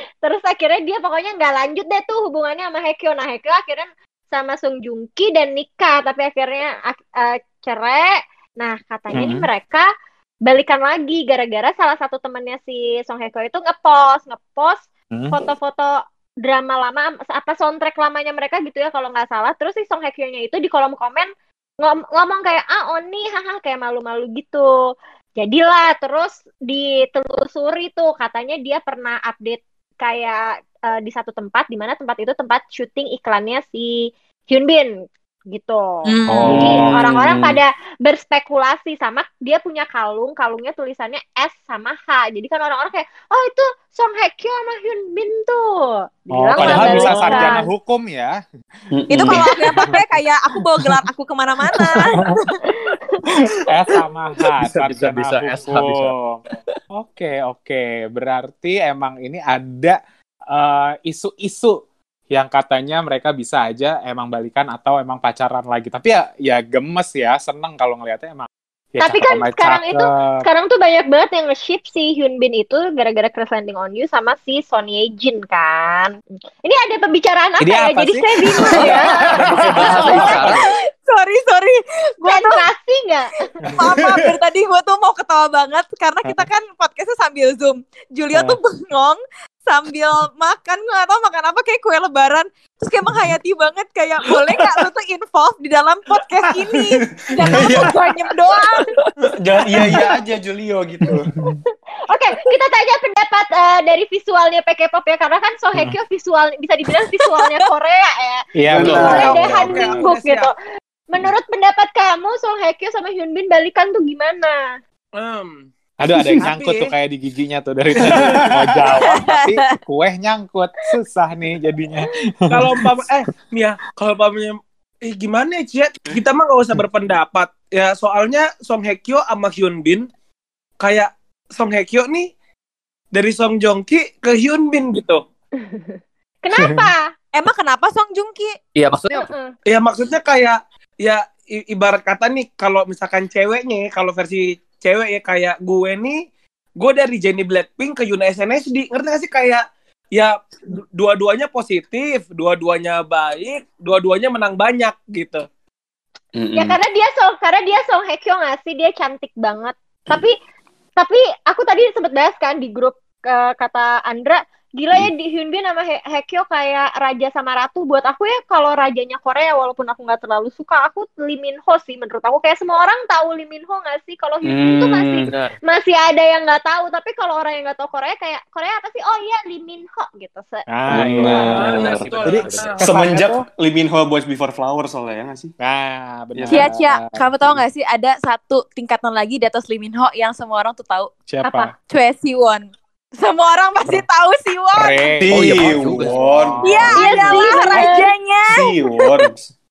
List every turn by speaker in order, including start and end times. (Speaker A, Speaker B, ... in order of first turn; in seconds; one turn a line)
Speaker A: 0.2-9.8
Speaker B: 9.1-9.5
Speaker A: 10.4-21.3
Speaker B: 15.1-15.4
Speaker A: 21.8-24.7
Speaker A: 25.4-34.9
Speaker A: 35.5-47.7
Speaker C: 36.0-36.6
Speaker B: 36.3-37.1
Speaker D: 36.5-37.6
Speaker B: 46.3-48.4
Speaker D: 46.5-47.6
Speaker D: 48.9-49.9
Speaker C: 49.1-52.2
Speaker B: 49.7-50.0
Speaker B: 51.9-52.4
Speaker A: 52.6-53.2
Speaker B: 53.7-56.4
Speaker E: 54.5-56.1
Speaker B: 56.9-60.0
Speaker B: 60.5-70.5
Speaker A: 69.0-80.5
Speaker B: 77.6-80.5
Speaker D: 78.7-80.2
Speaker E: 79.5-80.6
Speaker C: 80.0-82.6
Speaker A: 82.2-83.3
Speaker C: 83.8-98.9
Speaker D: 84.0-84.2
Speaker B: 88.3-88.6
Speaker D: 97.4-97.9
Speaker D: 99.2-101.3
Speaker B: 101.0-101.6
Speaker A: 102.1-110.5
Speaker C: 107.2-107.6
Speaker B: 108.5-109.9
Speaker D: 108.7-109.8
Speaker F: 108.9-110.5
Speaker A: 111.1-114.8
Speaker F: 115.2-115.7
Speaker B: 116.0-123.0
Speaker D: 116.1-116.4
Speaker F: 116.4-116.9
Speaker F: 117.9-118.5
Speaker D: 118.0-118.8
Speaker C: 119.0-119.8
Speaker F: 122.5-130.1
Speaker F: 130.8-132.3
Speaker F: 133.1-135.2
Speaker A: 135.6-137.1
Speaker B: 136.6-136.9
Speaker C: 137.3-138.5
Speaker E: 138.7-139.3
Speaker A: 139.1-139.5
Speaker F: 139.7-146.2
Speaker F: 146.8-155.4
Speaker D: 156.3-156.8
Speaker A: 156.5-160.3
Speaker A: 161.0-180.6
Speaker D: 174.4-175.3
Speaker B: 180.7-183.4
Speaker D: 180.9-185.5
Speaker F: 181.2-183.2
Speaker E: 181.9-182.6
Speaker B: 185.6-187.2
Speaker D: 186.3-186.7
Speaker C: 186.5-191.1
Speaker B: 191.3-191.7
Speaker A: 191.4-191.7
Speaker C: 191.9-192.6
Speaker C: 193.2-195.2
Speaker B: 194.7-197.2
Speaker D: 195.2-197.9
Speaker E: 195.3-196.4
Speaker C: 196.6-198.7
Speaker A: 196.9-198.1
Speaker D: 198.5-199.5